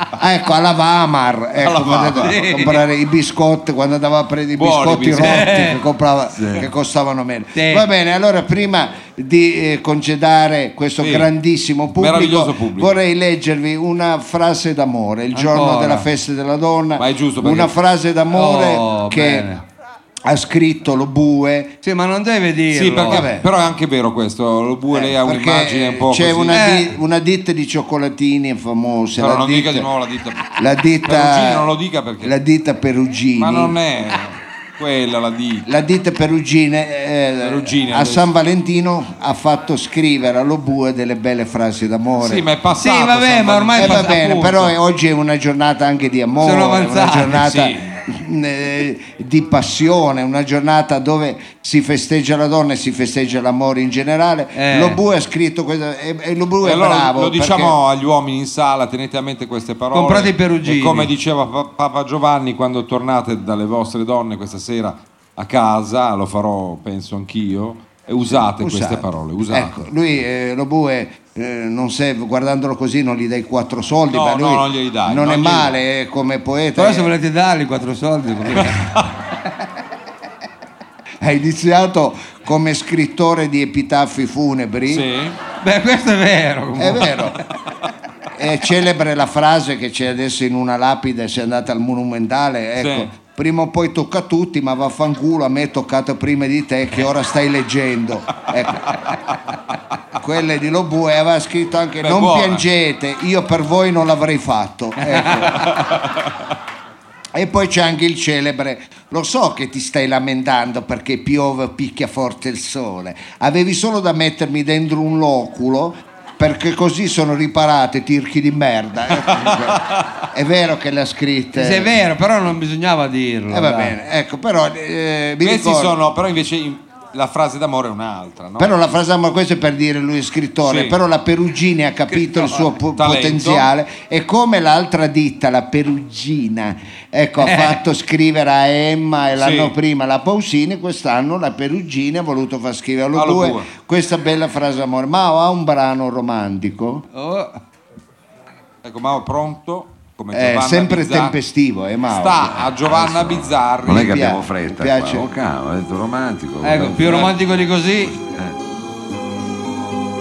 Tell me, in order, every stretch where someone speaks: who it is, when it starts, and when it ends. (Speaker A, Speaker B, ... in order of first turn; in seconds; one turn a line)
Speaker A: 0.1-19.5
Speaker B: 1.6-2.7
Speaker C: 2.2-2.7
Speaker B: 4.6-5.5
Speaker C: 5.2-5.8
Speaker D: 6.3-6.7
Speaker C: 7.5-7.8
Speaker B: 11.0-11.3
Speaker B: 11.9-12.9
Speaker C: 15.3-16.1
Speaker B: 17.0-17.7
Speaker C: 18.3-19.6
Speaker A: 20.2-21.7
Speaker C: 21.8-23.4
Speaker B: 22.7-26.6
Speaker A: 23.1-23.4
Speaker A: 24.9-29.9
Speaker C: 26.5-26.9
Speaker B: 29.2-30.5
Speaker A: 30.6-31.7
Speaker B: 31.1-32.3
Speaker A: 32.2-33.8
Speaker B: 33.4-35.7
Speaker A: 35.6-42.5
Speaker B: 37.4-38.3
Speaker B: 42.2-44.1
Speaker C: 42.8-44.7
Speaker A: 43.7-57.8
Speaker C: 46.4-47.4
Speaker B: 47.4-47.8
Speaker C: 54.5-55.0
Speaker B: 56.6-69.7
Speaker C: 59.9-61.1
Speaker A: 68.3-77.1
Speaker B: 74.1-75.7
Speaker C: 76.8-78.9
Speaker A: 81.2-85.1
Speaker B: 84.9-85.4
Speaker C: 85.6-87.1
Speaker A: 86.8-87.4
Speaker A: 88.3-98.9
Speaker B: 92.8-93.1
Speaker A: 100.2-105.8
Speaker B: 102.0-102.6
Speaker A: 107.3-122.0
Speaker C: 121.5-123.9
Speaker A: 123.5-126.0
Speaker B: 125.4-128.7
Speaker A: 128.6-147.0
Speaker B: 130.6-130.9
Speaker B: 132.9-133.7
Speaker C: 137.4-137.8
Speaker B: 139.4-139.7
Speaker B: 143.1-143.7
Speaker C: 147.1-147.6
Speaker B: 148.8-151.3
Speaker A: 150.3-152.7
Speaker B: 152.1-154.2
Speaker D: 152.9-157.3
Speaker A: 153.9-155.3
Speaker C: 156.6-158.1
Speaker B: 157.0-157.3
Speaker D: 158.0-158.6